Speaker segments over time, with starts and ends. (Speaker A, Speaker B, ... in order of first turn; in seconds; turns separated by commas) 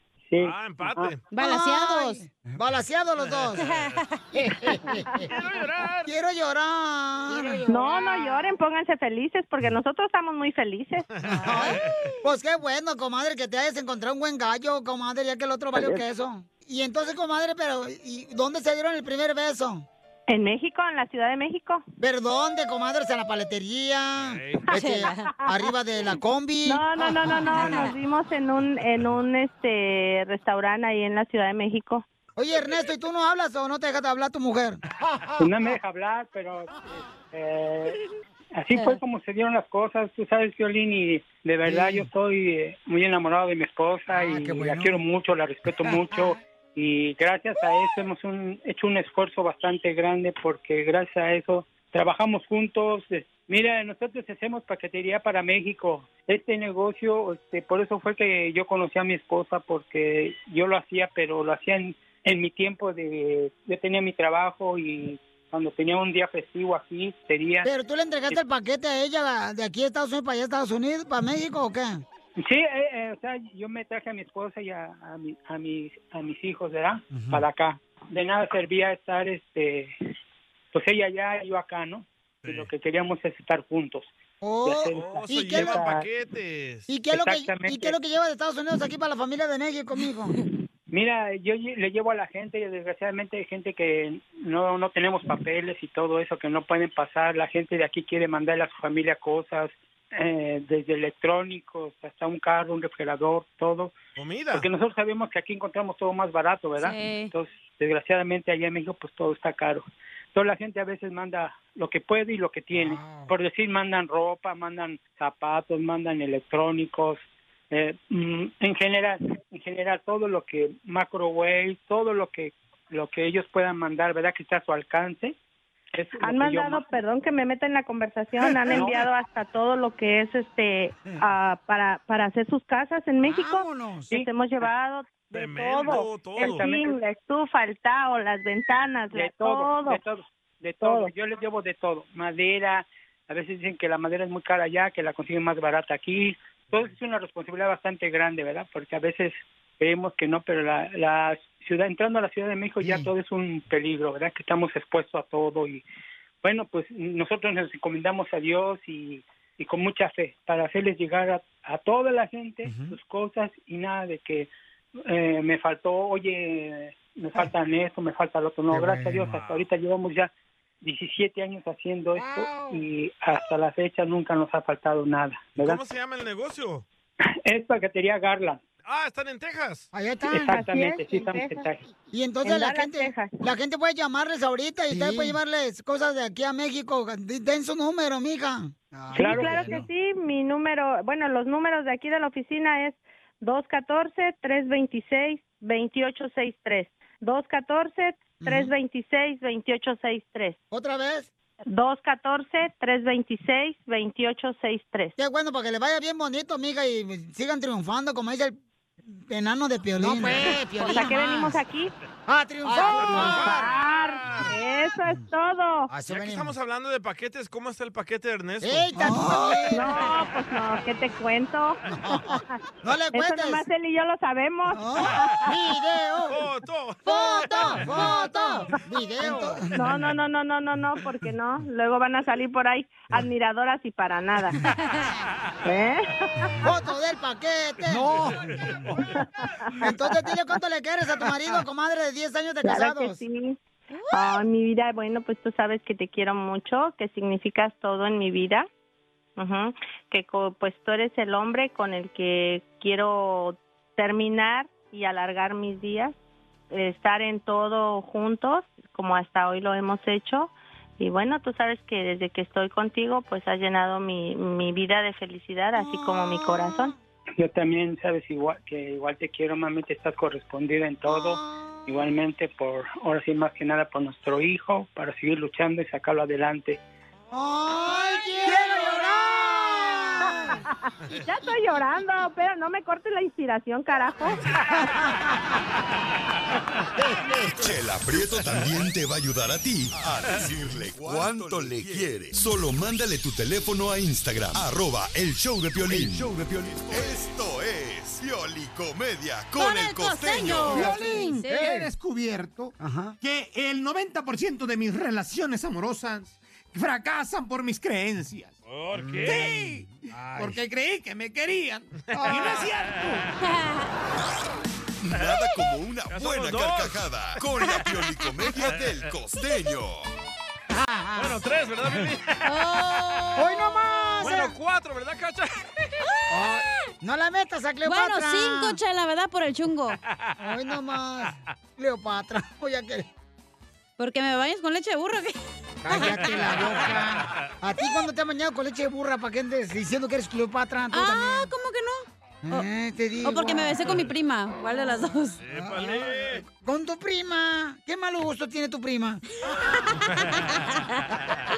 Speaker A: 0.3-1.1, Speaker B: 0.4-1.2, Speaker C: 1.3-2.2, Speaker D: 1.4-3.6, Speaker B: 3.2-4.0, Speaker C: 3.6-4.3, Speaker D: 4.3-5.3, Speaker B: 5.3-6.1, Speaker D: 6.0-7.9, Speaker E: 7.7-11.1, Speaker C: 7.9-8.2, Speaker B: 11.1-12.1, Speaker D: 11.3-19.9, Speaker C: 11.4-11.8, Speaker E: 20.3-21.8, Speaker D: 22.0-27.3, Speaker B: 24.2-24.6, Speaker C: 24.7-25.3, Speaker E: 26.6-32.0, Speaker C: 27.4-27.9, Speaker D: 32.4-34.8, Speaker A: 35.4-36.7, Speaker A: 37.3-38.0, Speaker A: 38.5-67.7, Speaker D: 41.6-42.1, Speaker D: 44.1-45.0, Speaker D: 45.8-46.3, Speaker D: 67.6-72.0, Speaker A: 72.4-79.9, Speaker D: 77.1-77.4, Speaker A: 80.7-84.1, Speaker B: 82.4-82.7, Speaker D: 84.4-85.8, Speaker A: 84.6-86.0, Speaker B: 84.9-86.9, Speaker D: 86.9-90.4, Speaker A: 87.1-88.0, Speaker A: 90.9-103.9, Speaker B: 104.2-104.7, Speaker A: 104.5-125.3, Speaker C: 106.8-107.3, Speaker D: 112.7-113.3, Speaker A: 125.9-126.9, Speaker E: 126.2-140.0, Speaker D: 133.2-134.1, Speaker B: 135.3-136.6, Speaker A: 135.8-137.0, Speaker A: 139.1-155.8, Speaker E: 140.8-141.1, Speaker D: 152.8-153.1, Speaker A: 156.4-164.5, Speaker D: 162.7-162.9, Speaker A: 165.1-175.8, Speaker D: 168.7-169.3, Speaker B: 169.3-169.6, Speaker D: 172.2-172.8, Speaker B: 175.6-176.8, Speaker A: 177.4-178.6, Speaker B: 178.8-179.9, Speaker D: 179.9-180.7, Speaker A: 180.3-181.8, Speaker E: 180.4-181.6, Speaker D: 182.1-189.9, Speaker E: 182.4-183.4, Speaker A: 189.2-189.8, Speaker E: 189.2-200.6, Speaker D: 198.4-198.7, Speaker D: 200.7-201.3, Speaker E: 201.6-205.1, Speaker D: 205.2-208.6, Speaker D: 209.1-211.6, Speaker E: 210.8-211.9, Speaker D: 212.3-213.7, Speaker E: 212.7-215.9, Speaker B: 212.8-214.5, Speaker D: 215.9-216.5, Speaker B: 216.1-219.2, Speaker D: 218.6-220.0, Speaker E: 219.7-221.8, Speaker D: 221.9-223.6, Speaker E: 222.3-222.6, Speaker E: 223.1-225.5, Speaker D: 224.7-226.4, Speaker B: 226.3-228.1, Speaker D: 227.1-229.9, Speaker C: 227.5-228.6, Speaker E: 229.7-234.6, Speaker E: 235.6-236.6, Speaker D: 236.6-238.6, Speaker B: 238.1-239.0, Speaker E: 239.1-240.0, Speaker D: 239.8-243.2, Speaker E: 242.6-243.6, Speaker C: 243.9-244.4, Speaker E: 244.1-248.7, Speaker E: 249.4-256.1, Speaker E: 256.7-266.9, Speaker D: 265.8-266.9, Speaker A: 267.4-276.8, Speaker D: 271.1-271.8, Speaker D: 277.3-280.6, Speaker E: 278.4-279.0, Speaker E: 280.2-280.6, Speaker E: 281.1-284.5, Speaker D: 287.0-287.5, Speaker F: 287.5-300.8, Speaker C: 299.6-301.7, Speaker G: 300.7-308.5, Speaker D: 300.7-301.9, Speaker D: 302.8-303.2, Speaker B: 308.7-309.5, Speaker D: 309.0-310.6, Speaker G: 309.2-313.3, Speaker D: 312.1-312.6, Speaker C: 313.4-313.9, Speaker F: 315.0-320.1, Speaker B: 316.1-317.0, Speaker B: 318.4-319.1, Speaker D: 320.7-321.3, Speaker B: 321.1-322.5, Speaker C: 322.4-323.8, Speaker D: 323.4-324.5, Speaker B: 324.2-325.6, Speaker D: 326.3-328.8, Speaker C: 327.8-330.0, Speaker D: 330.4-333.1, Speaker C: 334.0-335.4, Speaker D: 335.8-341.5, Speaker C: 335.9-336.2, Speaker B: 336.4-337.1, Speaker C: 340.9-342.7, Speaker D: 342.4-343.8, Speaker C: 343.2-345.4, Speaker B: 345.4-346.4, Speaker D: 345.5-349.2, Speaker B: 350.1-350.4